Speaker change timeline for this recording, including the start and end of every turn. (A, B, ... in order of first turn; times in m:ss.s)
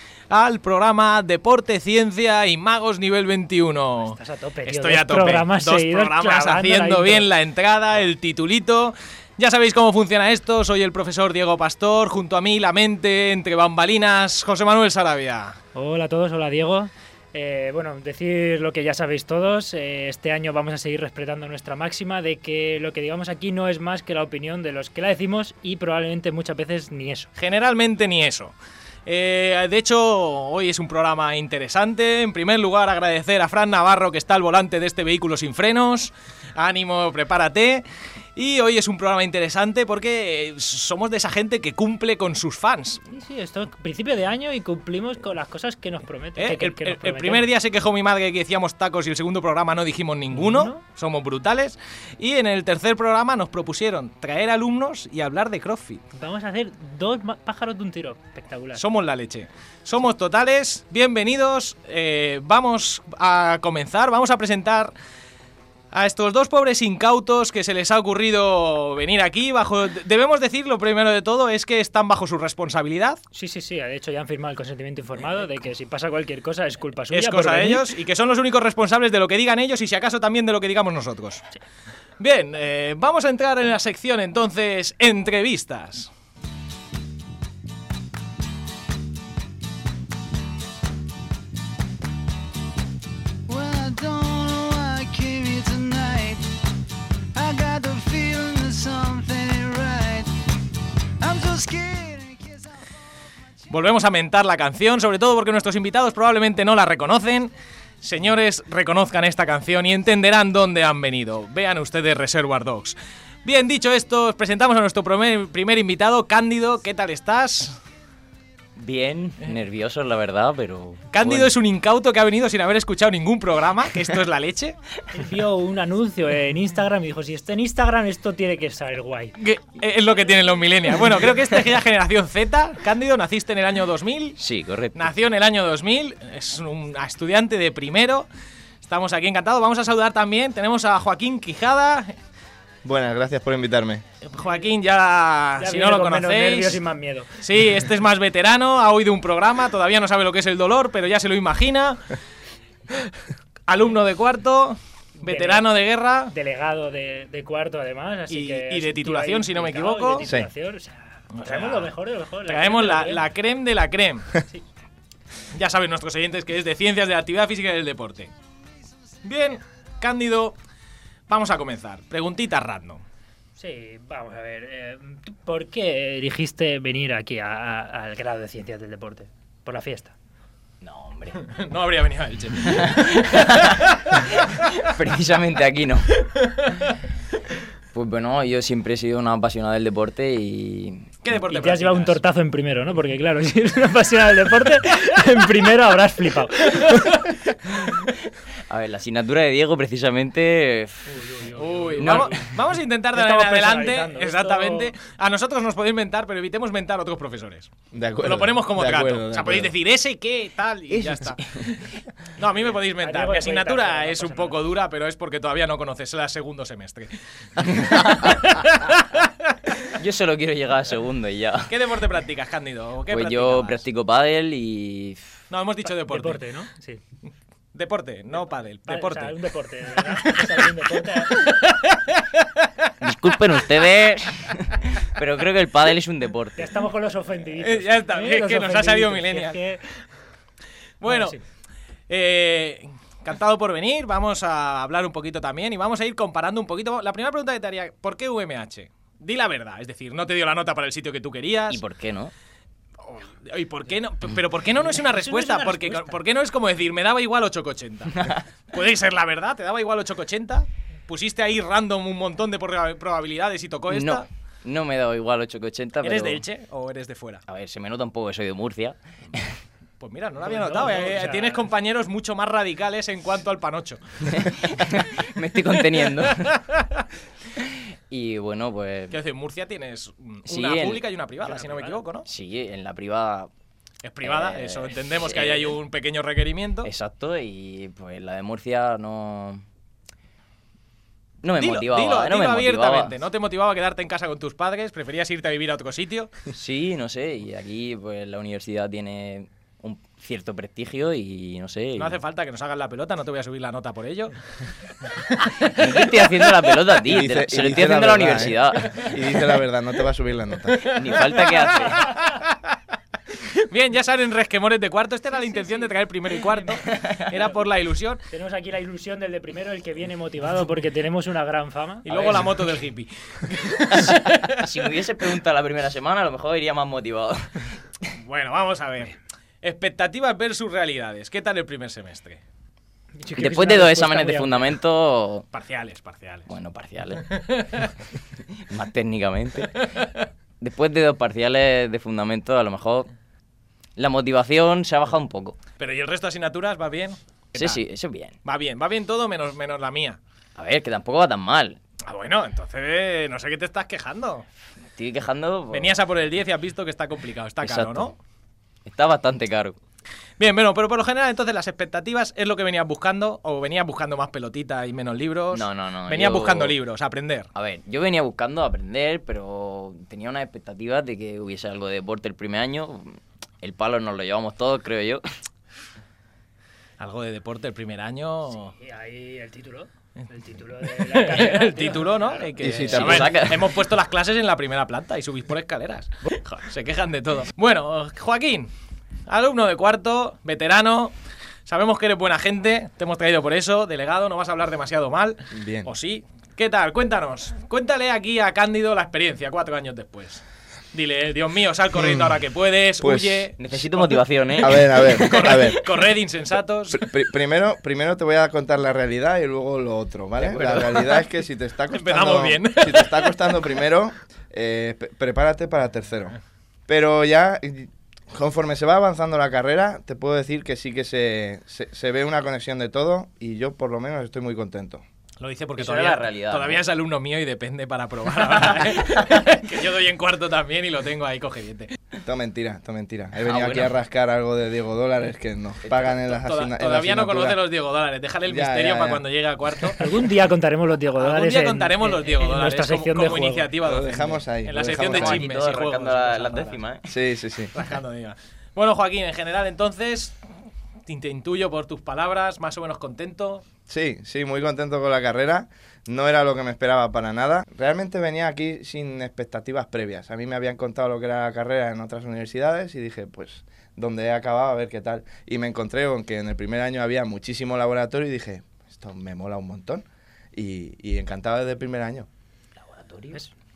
0:00.3-0:15.6 A
0:04.0-0:07.2 B
0:15.7-0:27.3 B
0:27.4-0:28.5 A
0:29.0-0:37.8 A
0:38.4-0:43.0 A
0:43.1-0:47.5 B
0:46.4-0:56.0 A
0:50.3-0:50.7 B
0:56.1-0:58.8 B
0:58.7-1:04.9 A
1:05.9-1:13.2 A
1:13.3-1:17.9 B
1:17.1-1:21.5 A
1:22.2-1:26.1 A
1:33.5-1:36.5 C
1:37.3-1:40.3 C
1:41.2-1:42.8 C
1:43.7-1:57.8 A
1:58.8-2:01.5 D
2:01.1-2:04.8 A
2:05.1-2:09.4 B
2:09.4-2:14.4 A
2:14.4-2:15.1 D
2:14.9-2:18.3 A
2:18.8-2:22.1 A
2:22.8-2:24.0 E
2:24.2-2:26.8 A
2:25.6-2:27.4 B
2:27.4-2:32.2 A
2:33.7-2:36.3 A
2:35.2-2:35.6 B
2:36.3-2:43.2 B
2:38.3-2:40.2 A
2:41.4-2:41.9 A
2:42.5-2:44.4 A
2:45.5-2:48.3 A
2:49.2-2:50.5 A
2:51.3-2:53.0 A
2:53.6-3:00.1 B
3:00.8-3:01.4 D
3:01.4-3:04.4 A
3:02.6-3:06.3 D
3:06.4-3:06.7 A
3:07.9-3:11.1 D
3:11.2-3:12.2 A
3:11.4-3:17.2 B
3:18.7-3:21.2 D
3:21.1-3:22.5 B
3:21.6-3:27.7 A
3:22.0-3:22.5 D
3:23.1-3:24.9 B
3:27.9-3:29.7 E
3:28.2-3:31.7 A
3:31.0-3:31.7 D
3:32.3-3:39.6 A
3:32.8-3:34.6 B
3:37.6-3:38.9 D
3:39.8-3:41.7 D
3:41.7-3:43.8 A
3:43.1-3:45.3 D
3:45.5-3:46.4 A
3:46.1-3:47.0 B
3:47.7-3:49.4 A
3:48.9-3:51.4 B
3:50.0-3:52.9 A
3:53.0-3:56.7 D
3:56.6-3:59.8 B
3:57.6-3:59.6 A
4:01.0-4:01.4 A
4:01.1-4:01.4 B
4:02.1-4:11.8 A
4:11.7-4:12.3 D
4:13.0-4:24.2 A
4:15.1-4:16.2 B
4:18.1-4:18.4 D
4:23.9-4:26.4 D
4:26.0-4:27.4 A
4:27.5-4:29.5 D
4:30.0-4:34.6 A
4:30.4-4:31.6 B
4:34.3-4:36.6 D
4:36.0-4:36.5 A
4:37.6-4:39.2 D
4:39.1-4:42.2 A
4:40.5-4:41.0 D
4:41.4-4:42.0 B
4:42.2-4:43.5 D
4:44.0-4:46.9 A
4:44.2-4:45.7 D
4:46.8-4:49.6 D
4:51.4-4:53.1 D
4:51.5-4:56.3 A
4:56.5-5:02.2 D
5:02.0-5:04.4 A
5:05.2-5:06.5 A
5:05.6-5:09.2 D
5:07.0-5:10.9 E
5:10.8-5:12.2 D
5:11.0-5:12.7 A
5:13.4-5:18.2 A
5:15.4-5:15.9 B
5:16.8-5:17.3 D
5:18.3-5:22.3 B
5:22.0-5:24.6 A
5:22.1-5:22.4 D
5:23.9-5:27.7 D
5:28.1-5:32.4 A
5:33.2-5:34.6 B
5:33.4-5:35.4 D
5:35.5-5:36.5 A
5:36.5-5:37.4 D
5:37.4-5:37.9 A
5:38.7-5:40.1 D
5:40.6-5:43.1 D
5:44.0-5:45.6 D
5:45.8-5:47.8 A
5:47.5-5:48.3 D
5:48.4-5:50.2 A
5:50.6-5:51.8 D
5:52.0-5:54.4 A
5:54.9-5:56.0 D
5:55.7-5:58.2 A
5:57.6-5:58.1 D
5:58.8-5:59.8 D
6:00.4-6:07.5 A
6:05.5-6:06.7 D
6:07.5-6:15.2 D
6:17.0-6:18.7 A
6:18.7-6:22.5 B
6:20.9-6:28.7 A
6:22.6-6:23.4 E
6:22.8-6:23.8 D
6:29.3-6:31.1 A
6:31.6-6:40.4 A
6:35.5-6:35.9 E
6:40.9-6:47.1 A
6:42.0-6:42.3 E
6:43.0-6:43.5 E
6:43.6-6:45.8 D
6:44.6-6:45.8 E
6:46.9-6:56.4 E
6:50.4-6:51.2 D
6:51.9-6:53.6 A
6:56.9-7:05.0 E
7:05.4-7:11.9 A
7:05.8-7:06.8 D
7:08.8-7:09.3 D
7:12.2-7:17.6 E
7:13.4-7:13.9 D
7:15.8-7:16.1 D
7:16.2-7:20.0 A
7:18.5-7:19.2 E
7:20.0-7:23.7 B
7:21.2-7:26.8 A
7:23.8-7:25.4 E
7:24.8-7:27.1 D
7:27.1-7:27.7 E
7:27.7-7:30.4 A
7:31.1-7:33.6 A
7:33.9-7:52.3 E
7:52.8-7:53.4 D